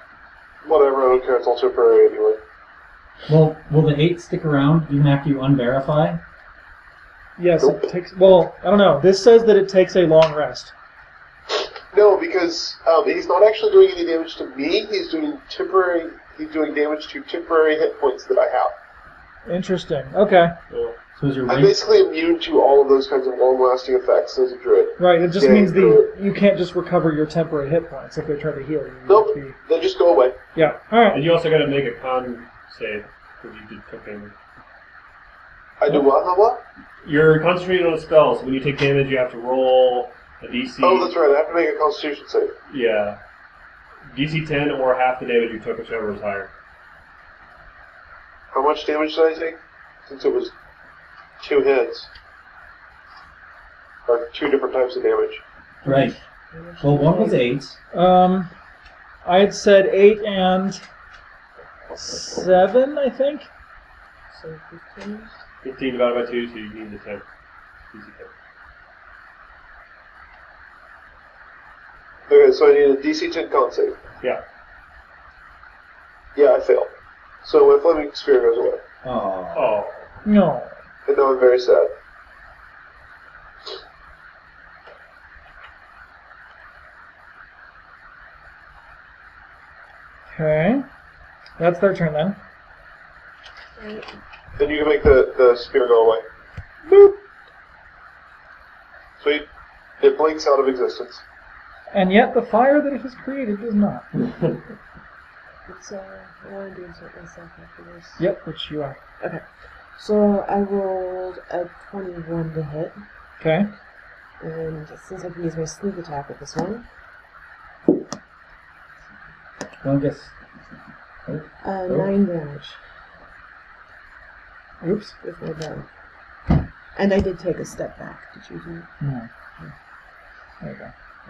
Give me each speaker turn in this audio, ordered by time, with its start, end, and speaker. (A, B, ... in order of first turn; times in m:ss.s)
0:00.6-0:02.4 A
0:03.3-0:06.2 B
0:07.4-0:10.7 C
0:11.9-0:18.7 A
0:19.5-0:20.6 C
0:20.7-0:21.0 D
0:21.2-0:21.8 B
0:21.5-0:26.1 A
0:25.0-0:29.6 C
0:29.1-0:30.4 A
0:30.6-0:31.2 C
0:30.6-0:34.3 D
0:35.8-0:36.6 A
0:37.0-0:41.2 D
0:40.8-0:42.5 A
0:42.7-0:43.2 D
0:44.1-0:46.5 D
0:48.5-0:50.5 A
0:51.4-0:52.1 A
0:54.1-0:55.4 A
0:55.8-0:56.2 B
0:55.9-0:57.4 E
0:56.8-0:57.8 B
0:57.9-0:58.5 C
0:59.2-1:00.8 C
1:01.9-1:03.5 C
1:04.3-1:05.4 E
1:05.6-1:07.2 D
1:07.9-1:08.3 D
1:12.3-1:14.0 A
1:16.4-1:16.9 A
1:17.4-1:18.8 A
1:19.0-1:19.8 B
1:19.5-1:20.1 D
1:20.2-1:20.8 C
1:21.1-1:21.9 A
1:30.3-1:30.8 C
1:31.6-1:32.4 C
1:33.8-1:34.1 E
1:34.6-1:36.2 A
1:36.9-1:37.2 C
1:39.2-1:39.5 A
1:40.0-1:41.2 A
1:41.9-1:44.1 C
1:45.7-1:48.2 E
1:48.2-1:49.0 C
1:50.0-1:53.0 E
1:53.4-1:53.7 C
1:54.4-1:56.9 E
1:59.8-2:00.4 B
2:01.3-2:02.1 B
2:01.6-2:02.8 E
2:04.8-2:05.2 C
2:05.2-2:05.9 E
2:07.0-2:08.9 E
2:09.0-2:09.3 C
2:10.6-2:10.9 C